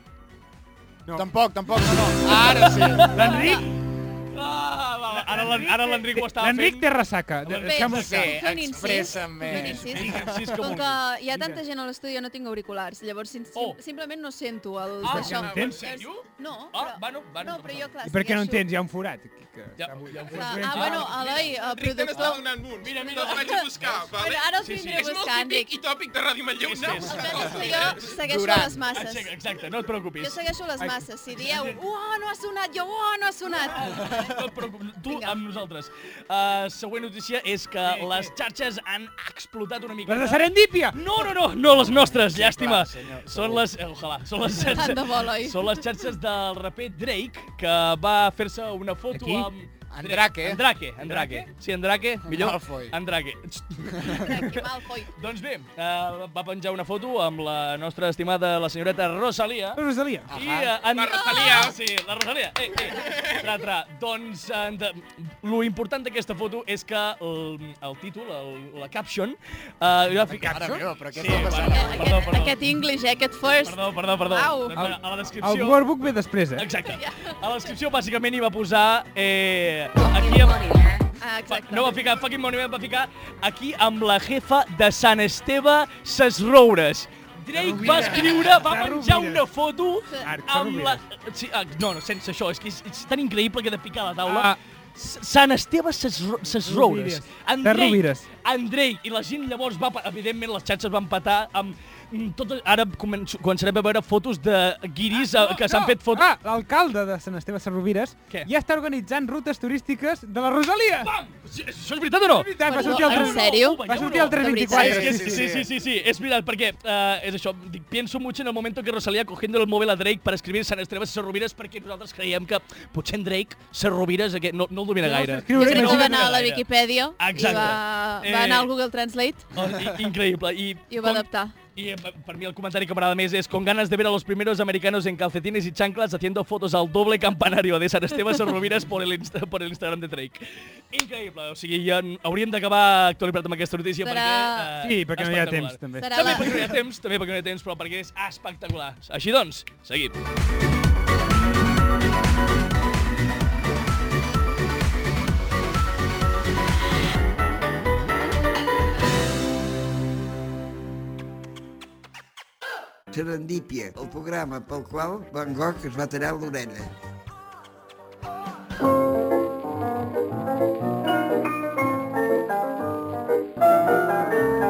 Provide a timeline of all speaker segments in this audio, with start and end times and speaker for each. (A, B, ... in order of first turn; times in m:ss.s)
0:01.2-0:03.2 A
0:02.3-0:03.5 B
0:03.1-0:03.7 C
0:03.2-0:03.6 D
0:04.3-0:06.9 B
0:05.3-0:08.4 C
0:07.4-0:08.3 B
0:07.6-0:18.7 D
0:07.9-0:10.5 A
0:09.5-0:11.0 B
0:11.3-0:11.6 C
0:15.0-0:17.9 B
0:15.1-0:15.8 C
0:15.2-0:15.8 E
0:18.0-0:21.2 C
0:19.8-0:21.6 B
0:20.3-0:22.4 D
0:21.2-0:28.1 E
0:22.1-0:25.2 B
0:23.2-0:25.7 D
0:26.6-0:28.0 B
0:27.1-0:29.3 D
0:28.2-0:28.8 A
0:28.9-0:30.4 B
0:30.2-0:34.4 D
0:33.6-0:54.4 B
0:35.1-0:35.4 D
0:37.9-0:38.3 C
0:40.1-0:41.0 C
0:41.8-0:43.7 A
0:44.6-0:45.7 D
0:49.1-0:49.5 C
0:49.9-0:50.6 A
0:51.0-0:51.5 C
0:52.2-0:53.0 A
0:54.2-0:55.1 D
0:55.2-1:12.6 B
0:59.8-1:00.3 C
1:00.3-1:00.8 A
1:00.9-1:01.8 E
1:01.3-1:01.6 D
1:02.9-1:03.5 E
1:10.3-1:10.9 C
1:10.4-1:12.2 A
1:11.5-1:14.8 D
1:13.6-1:15.8 B
1:14.7-1:16.7 C
1:16.6-1:20.9 B
1:16.9-1:17.4 D
1:21.2-1:22.0 D
1:21.5-1:46.3 B
1:27.6-1:29.5 C
1:30.1-1:30.3 D
1:30.2-1:31.0 C
1:34.2-1:34.6 C
1:36.5-1:38.3 C
1:45.2-1:51.1 C
1:51.0-2:06.7 B
1:52.3-1:55.5 C
1:52.6-1:55.2 D
1:54.7-1:55.7 A
2:05.0-2:06.3 C
2:05.5-2:09.5 D
2:07.2-2:08.7 B
2:09.5-2:30.2 B
2:10.9-2:11.6 D
2:24.0-2:24.7 D
2:24.8-2:26.5 C
2:26.0-2:26.8 D
2:43.1-2:46.9 F